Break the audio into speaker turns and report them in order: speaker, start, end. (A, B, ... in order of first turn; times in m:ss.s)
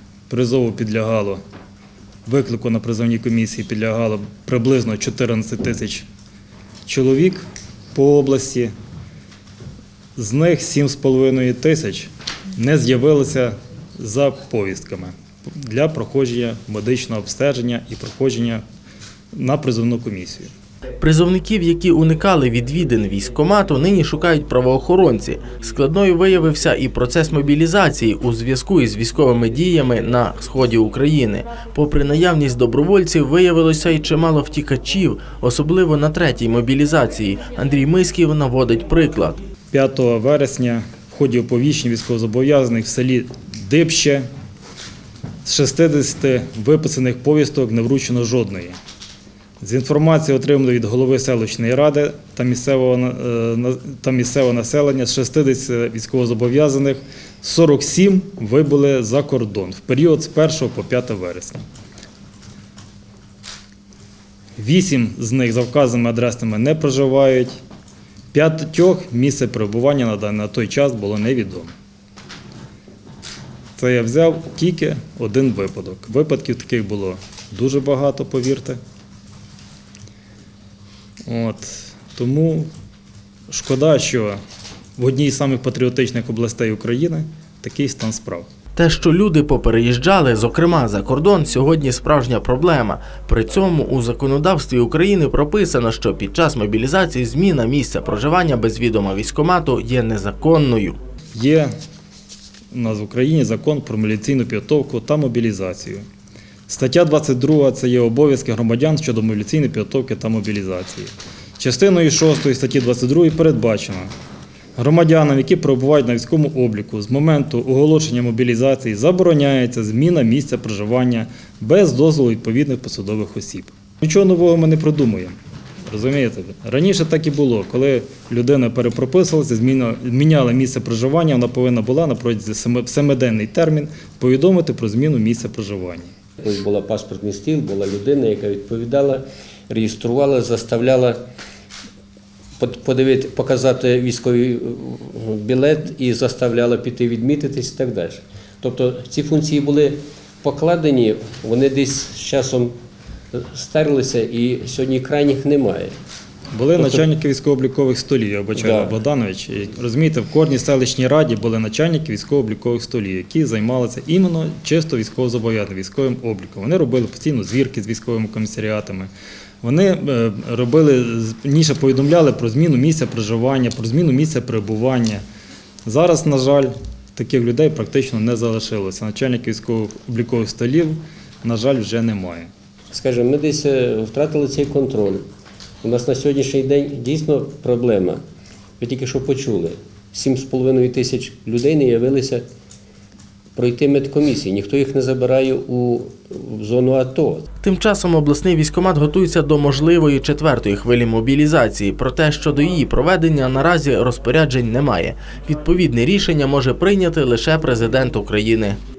0:00.3-0:01.4 A
0:02.3-0:06.1 A
0:06.9-0:08.7 A
0:10.2-0:18.6 A
0:19.3-0:20.5 A
0:21.0-0:39.4 B
0:39.7-0:44.3 A
0:45.4-0:48.8 A
0:49.6-1:01.6 A
1:04.6-1:07.6 A
1:08.3-1:11.7 A
1:13.8-1:18.8 A
1:21.3-1:22.7 A
1:23.5-1:24.4 A
1:25.0-1:28.5 A
1:28.8-1:41.0 B
1:41.4-1:41.7 A
1:42.7-1:46.0 A
1:46.7-1:54.1 A
1:54.8-2:16.1 A
2:16.4-2:21.2 C
2:22.6-2:32.8 C
2:33.3-2:35.9 C
2:36.5-2:49.1 A
2:36.8-2:37.0 C
2:38.6-2:39.0 C
2:49.6-2:55.2 A
2:55.9-3:02.5 A
3:02.9-3:05.2 C
3:05.8-3:08.2 C
3:08.8-3:12.4 C
3:13.6-3:17.5 C
3:17.6-3:28.8 B